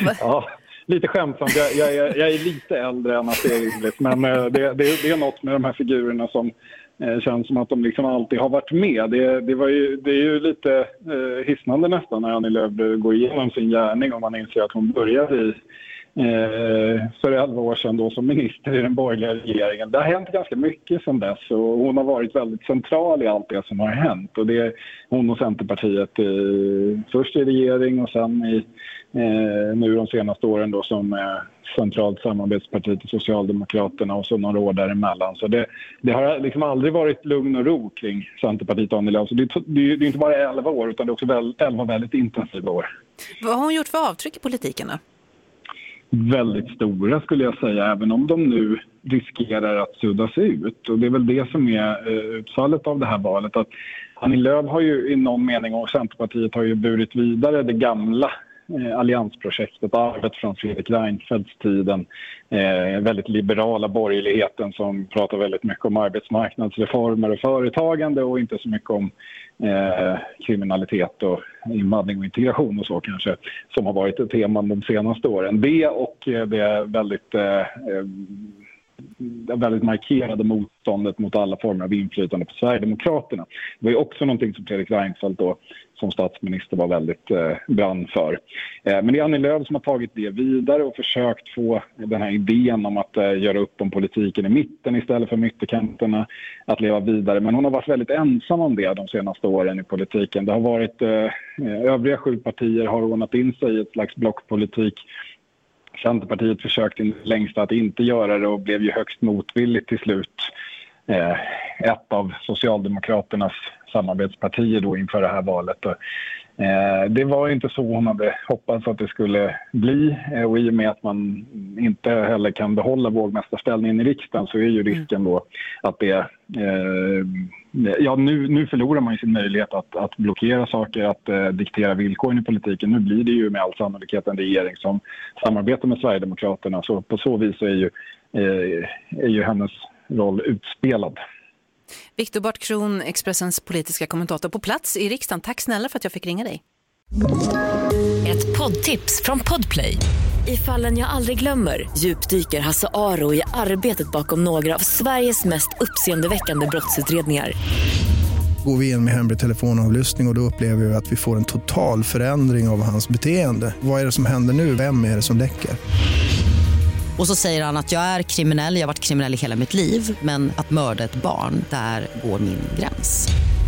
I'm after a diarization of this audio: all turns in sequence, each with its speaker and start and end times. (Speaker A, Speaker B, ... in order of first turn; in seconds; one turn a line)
Speaker A: 0.1-15.6
Speaker A: 16.2-42.9
Speaker B: 43.4-45.0
Speaker A: 46.1-78.5
Speaker A: 79.2-105.0
Speaker A: 106.0-110.5
Speaker A: 111.1-116.0
Speaker A: 116.6-141.2
Speaker B: 142.2-146.6
Speaker C: 148.2-157.6
Speaker D: 158.6-165.8
Speaker E: 167.2-173.3